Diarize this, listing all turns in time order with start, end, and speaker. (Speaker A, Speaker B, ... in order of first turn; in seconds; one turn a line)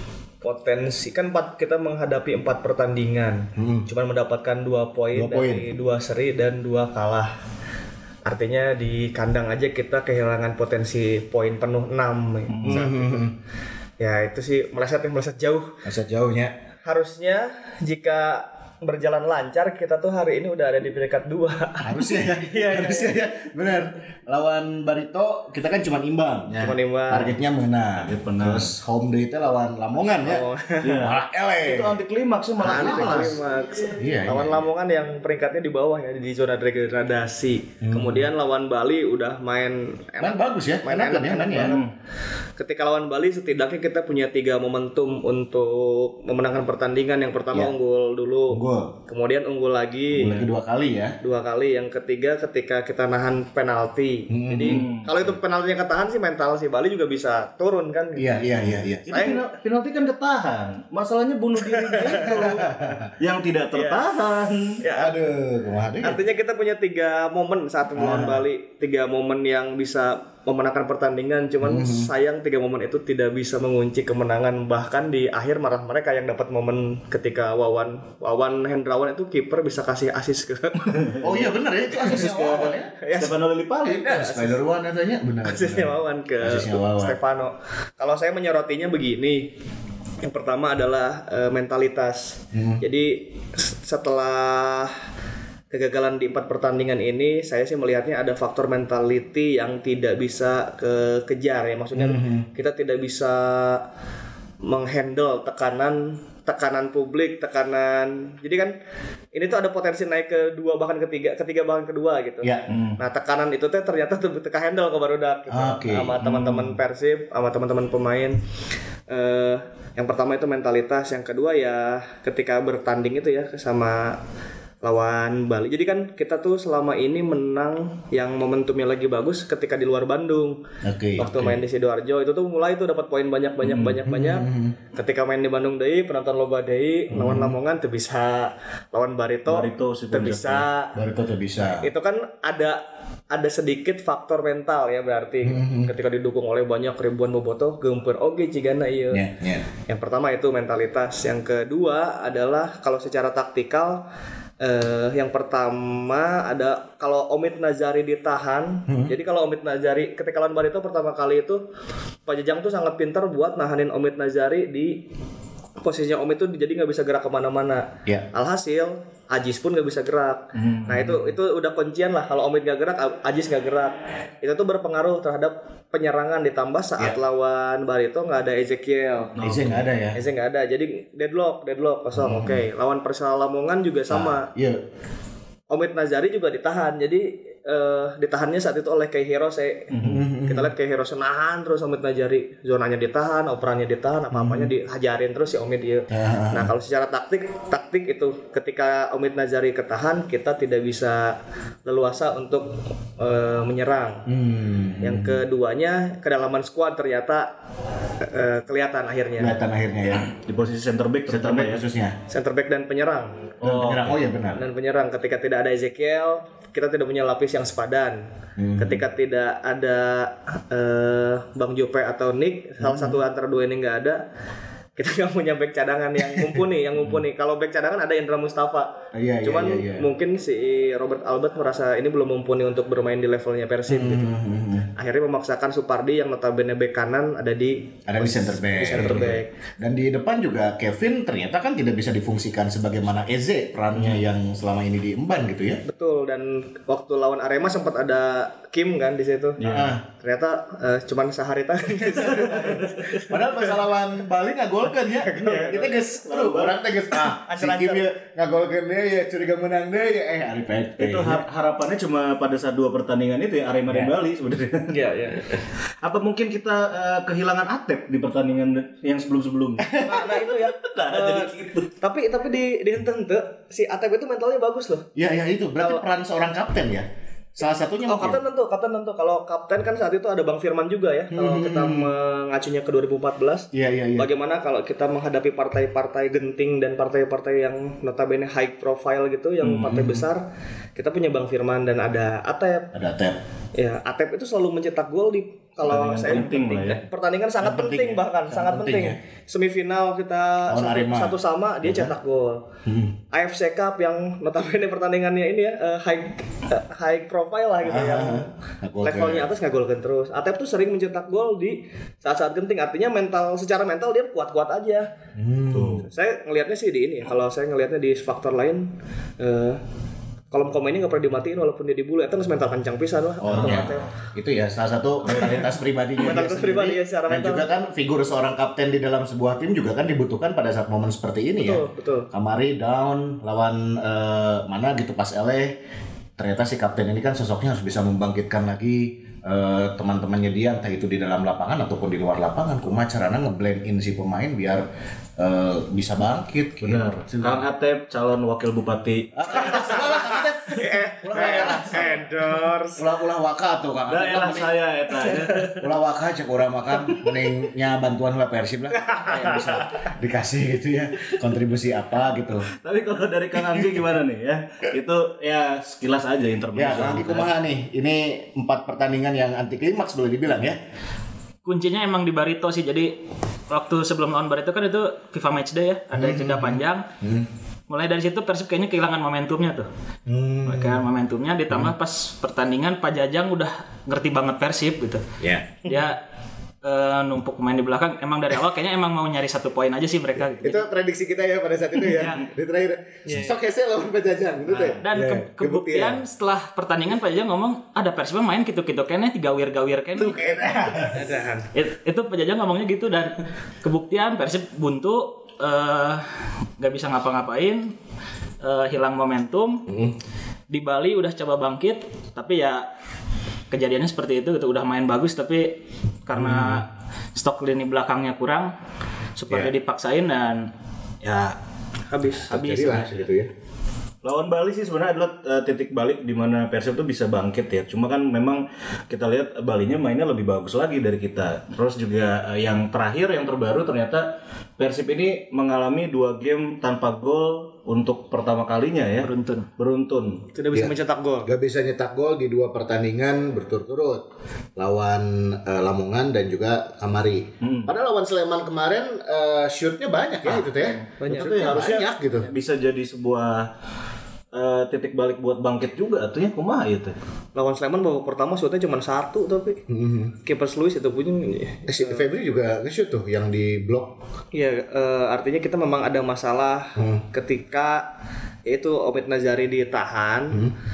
Speaker A: 0.4-7.3
Speaker B: 3.5-3.9
Speaker B: 5.1-5.7
Speaker A: 8.2-13.2
Speaker C: 12.5-12.9
Speaker B: 12.7-13.3
Speaker A: 14.0-15.8
Speaker B: 15.8-16.5
Speaker A: 16.8-23.1
Speaker B: 21.8-32.0
Speaker A: 26.6-27.3
Speaker C: 28.0-28.7
Speaker A: 30.2-31.0
Speaker C: 30.8-33.4
Speaker B: 32.6-34.7
Speaker A: 32.6-41.8
Speaker B: 37.8-38.3
Speaker B: 40.2-41.8
Speaker C: 41.5-41.9
Speaker A: 42.6-50.4
Speaker B: 48.5-48.9
Speaker B: 50.2-51.2
Speaker C: 50.2-50.5
Speaker A: 51.2-58.3
Speaker B: 54.3-54.8
Speaker C: 54.6-55.4
Speaker B: 58.1-59.4
Speaker C: 59.1-64.8
Speaker A: 59.1-59.4
Speaker A: 61.9-62.4
Speaker B: 62.1-63.1
Speaker A: 63.7-64.1
Speaker A: 64.8-65.1
Speaker B: 64.9-66.2
Speaker A: 66.0-81.4
Speaker B: 67.9-68.4
Speaker B: 71.6-72.1
Speaker B: 81.2-82.9
Speaker C: 81.9-84.2
Speaker A: 83.0-83.3
Speaker B: 83.8-87.2
Speaker A: 84.0-84.6
Speaker A: 85.4-89.5
Speaker A: 90.2-94.9
Speaker B: 92.5-92.8
Speaker A: 95.7-103.8
Speaker B: 101.9-102.5
Speaker A: 104.6-108.7
Speaker A: 109.3-118.4
Speaker C: 112.7-113.0
Speaker B: 115.5-116.7
Speaker C: 116.2-116.6
Speaker A: 119.1-124.2
Speaker A: 124.8-130.6
Speaker B: 130.8-131.6
Speaker A: 131.2-140.9
Speaker C: 131.2-131.5
Speaker C: 133.6-134.0
Speaker B: 133.9-134.8
Speaker B: 137.1-137.6
Speaker C: 139.5-140.6
Speaker B: 140.9-141.9
Speaker A: 141.6-149.2
Speaker B: 145.4-145.9
Speaker B: 149.1-149.7
Speaker A: 149.9-154.0
Speaker A: 154.6-161.6
Speaker B: 158.9-159.1
Speaker A: 162.2-165.0
Speaker A: 165.8-179.3
Speaker C: 170.5-171.3
Speaker C: 179.4-179.9
Speaker B: 179.4-180.2
Speaker A: 180.1-184.5
Speaker B: 182.1-182.6
Speaker B: 184.1-184.8
Speaker A: 185.7-189.9
Speaker C: 189.9-190.2
Speaker B: 190.0-190.7
Speaker A: 190.5-204.2
Speaker B: 194.3-194.7
Speaker B: 196.1-196.7
Speaker B: 204.3-205.4
Speaker A: 205.0-207.5
Speaker A: 208.2-209.6
Speaker B: 209.4-210.3
Speaker C: 210.1-211.8
Speaker B: 211.3-212.2
Speaker A: 212.3-213.5
Speaker C: 213.6-214.2
Speaker B: 213.6-214.6
Speaker A: 214.6-218.3
Speaker B: 218.6-219.0
Speaker A: 218.8-224.2
Speaker B: 222.8-223.2
Speaker A: 224.9-234.3
Speaker B: 229.1-230.1
Speaker B: 233.9-234.9
Speaker A: 234.9-239.5
Speaker B: 238.1-245.8
Speaker A: 245.8-249.6
Speaker C: 249.6-250.0
Speaker B: 249.7-250.0
Speaker A: 250.1-253.7
Speaker B: 251.9-261.4
Speaker A: 255.1-256.0
Speaker C: 256.2-256.8
Speaker A: 257.1-258.1
Speaker C: 261.0-264.9
Speaker A: 264.9-265.6
Speaker C: 265.6-271.9
Speaker B: 269.8-270.4
Speaker A: 270.0-275.1
Speaker B: 275.1-278.4
Speaker A: 275.8-276.0
Speaker A: 278.1-290.4
Speaker B: 281.3-282.1
Speaker B: 283.7-284.3
Speaker B: 289.6-290.3
Speaker A: 290.9-292.9
Speaker B: 292.9-293.4
Speaker A: 293.8-302.6
Speaker C: 295.8-297.0
Speaker B: 297.6-299.2
Speaker B: 300.7-302.1
Speaker B: 302.9-303.1
Speaker A: 303.3-308.5
Speaker B: 307.8-309.5
Speaker A: 309.0-315.1
Speaker B: 315.4-316.1
Speaker C: 315.7-316.1
Speaker A: 316.1-318.9
Speaker A: 319.4-319.8
Speaker A: 320.5-324.1
Speaker B: 323.4-335.8
Speaker C: 323.5-324.0
Speaker C: 325.2-325.7
Speaker A: 326.2-327.6
Speaker A: 331.6-332.3
Speaker B: 336.4-344.8
Speaker B: 345.4-347.6
Speaker C: 346.8-349.9
Speaker B: 349.4-352.2
Speaker A: 349.6-353.0
Speaker B: 352.9-354.7
Speaker C: 354.1-355.8
Speaker B: 355.8-362.7
Speaker A: 359.1-359.9
Speaker C: 362.7-367.5
Speaker B: 366.7-370.8
Speaker D: 371.6-373.1
Speaker D: 373.7-377.0
Speaker B: 376.1-377.5
Speaker D: 377.9-379.9
Speaker B: 380.3-381.0
Speaker D: 380.6-385.2
Speaker B: 385.4-385.7
Speaker D: 385.8-386.2
Speaker D: 386.8-390.8
Speaker B: 390.4-396.2
Speaker C: 392.1-392.4
Speaker A: 393.3-393.6
Speaker C: 394.7-395.0
Speaker D: 395.0-400.6
Speaker B: 400.1-401.2
Speaker A: 401.1-401.7
Speaker D: 401.7-406.2
Speaker D: 406.8-407.9
Speaker D: 408.6-409.9
Speaker B: 409.9-410.1
Speaker D: 410.7-412.9
Speaker D: 413.7-418.7
Speaker B: 416.3-416.9
Speaker D: 419.4-420.7
Speaker D: 421.2-421.6
Speaker A: 422.1-422.5
Speaker B: 422.5-423.5
Speaker D: 422.5-423.1
Speaker C: 424.2-434.2
Speaker C: 434.8-440.4
Speaker D: 439.2-439.7
Speaker A: 440.5-441.5
Speaker B: 441.4-444.2
Speaker B: 444.8-452.5
Speaker C: 447.6-447.9
Speaker C: 450.4-453.7
Speaker A: 451.2-451.9
Speaker C: 454.5-457.1
Speaker A: 457.5-459.8
Speaker B: 459.9-460.3
Speaker A: 460.4-462.3
Speaker B: 461.9-464.1
Speaker A: 464.5-468.1
Speaker B: 466.9-467.2
Speaker A: 468.6-470.6